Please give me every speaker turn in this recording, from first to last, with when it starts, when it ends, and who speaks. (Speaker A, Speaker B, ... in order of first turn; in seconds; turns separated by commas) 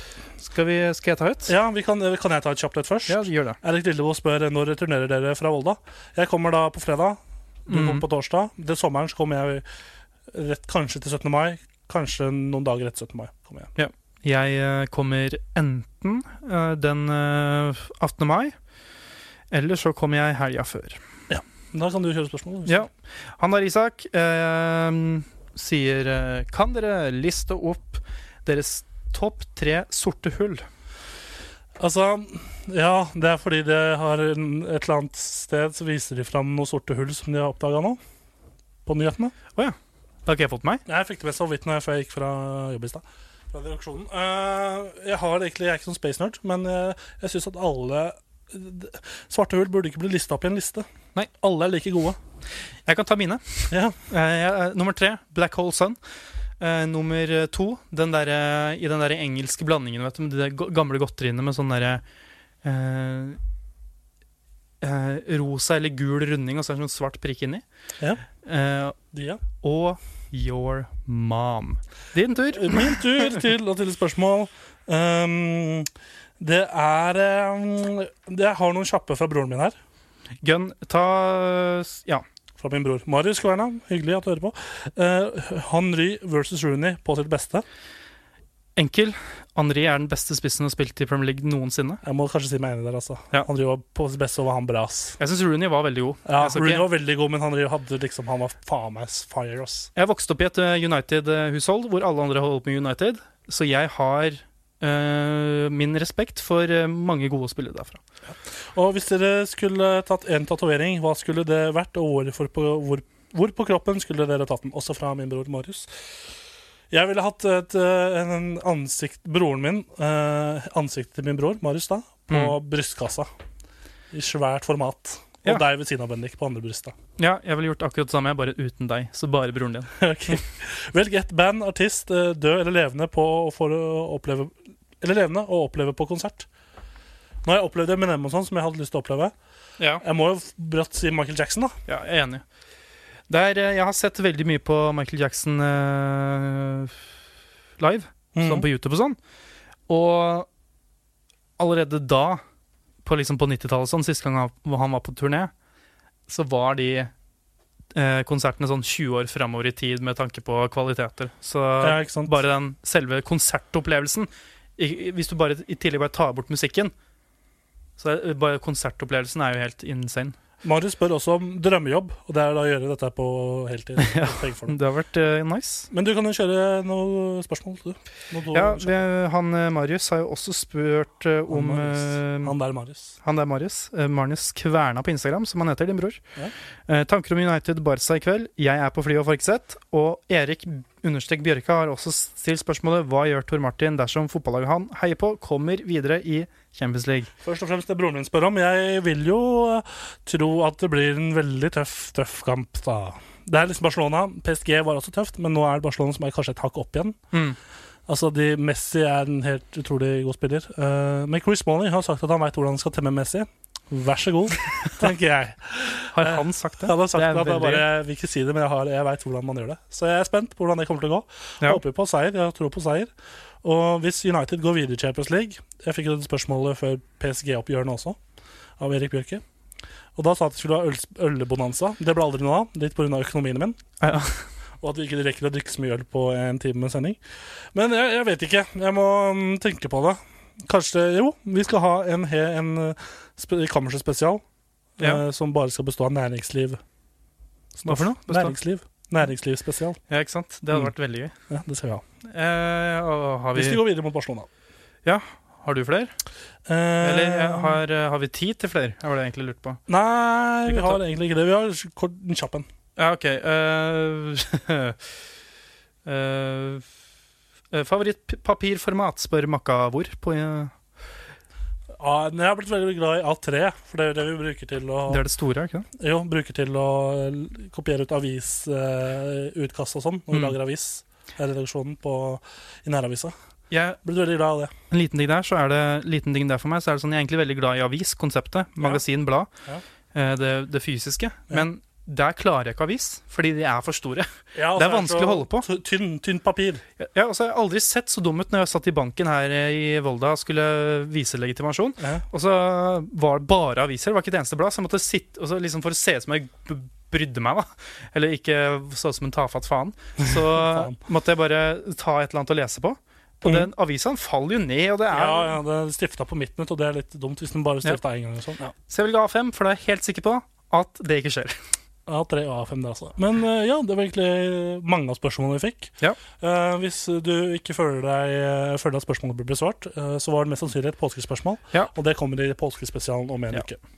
Speaker A: 0.4-1.5, Speaker B: 1.4-9.6, Speaker A: 3.1-3.6, Speaker A: 7.7-8.0, Speaker B: 10.3-13.7, Speaker A: 13.8-18.5, Speaker A: 19.5-21.0, Speaker B: 21.3-22.9, Speaker A: 22.6-30.6, Speaker B: 31.8-38.0, Speaker B: 38.8-39.3, Speaker A: 39.5-40.8, Speaker B: 40.9-52.2, Speaker A: 52.9-56.0, Speaker B: 53.7-54.0, Speaker A: 56.6-62.0, Speaker A: 62.6-63.4, Speaker A: 64.8-67.6, Speaker A: 68.4-69.0, Speaker B: 69.1-69.4, Speaker A: 69.6-73.4, Speaker B: 72.5-75.9, Speaker B: 76.4-79.7, Speaker A: 80.4-82.2, Speaker B: 82.6-87.6, Speaker A: 88.8-92.0, Speaker B: 92.0-95.2, Speaker A: 95.2-96.8, Speaker B: 96.2-99.9, Speaker A: 100.0-108.0, Speaker B: 108.7-115.9, Speaker B: 116.9-123.3, Speaker A: 122.3-122.5, Speaker B: 124.1-126.9, Speaker A: 127.2-130.4, Speaker B: 130.0-136.5, Speaker B: 137.4-139.3, Speaker B: 140.0-141.7, Speaker A: 141.9-142.4, Speaker A: 143.3-146.9, Speaker A: 147.8-149.2, Speaker B: 148.3-148.7, Speaker A: 149.9-150.5, Speaker A: 151.6-152.4, Speaker A: 153.0-155.5, Speaker A: 156.3-157.1, Speaker A: 157.9-166.9, Speaker B: 161.8-162.4, Speaker A: 168.0-170.3, Speaker B: 170.6-174.8, Speaker A: 174.0-175.9, Speaker B: 175.9-179.0, Speaker A: 178.5-182.5, Speaker B: 181.5-183.2, Speaker A: 183.2-186.2, Speaker A: 186.9-197.3, Speaker B: 197.4-207.2, Speaker B: 208.1-223.1, Speaker A: 216.0-217.9, Speaker B: 223.6-228.2, Speaker B: 228.8-229.4, Speaker B: 230.2-233.8, Speaker A: 234.0-234.4, Speaker B: 234.8-237.2, Speaker B: 237.7-244.4, Speaker B: 245.0-246.8, Speaker B: 247.8-250.0, Speaker A: 247.8-248.6, Speaker A: 250.1-251.3, Speaker B: 251.5-252.0, Speaker A: 252.2-253.8, Speaker B: 253.5-254.5, Speaker A: 255.0-256.1, Speaker B: 256.6-257.8, Speaker A: 257.0-259.8, Speaker B: 259.9-262.7, Speaker A: 260.7-261.0, Speaker A: 263.0-265.0, Speaker A: 266.0-266.9, Speaker A: 267.7-270.7, Speaker B: 272.0-275.2, Speaker A: 275.1-275.9, Speaker B: 276.0-283.3, Speaker A: 280.3-280.6, Speaker A: 283.7-284.0, Speaker B: 284.0-284.7, Speaker A: 284.9-289.5, Speaker A: 290.1-295.6, Speaker B: 294.5-296.8, Speaker A: 297.0-315.6, Speaker B: 310.3-310.9, Speaker B: 313.4-313.7, Speaker B: 315.1-318.7, Speaker A: 318.9-321.6, Speaker B: 322.1-333.8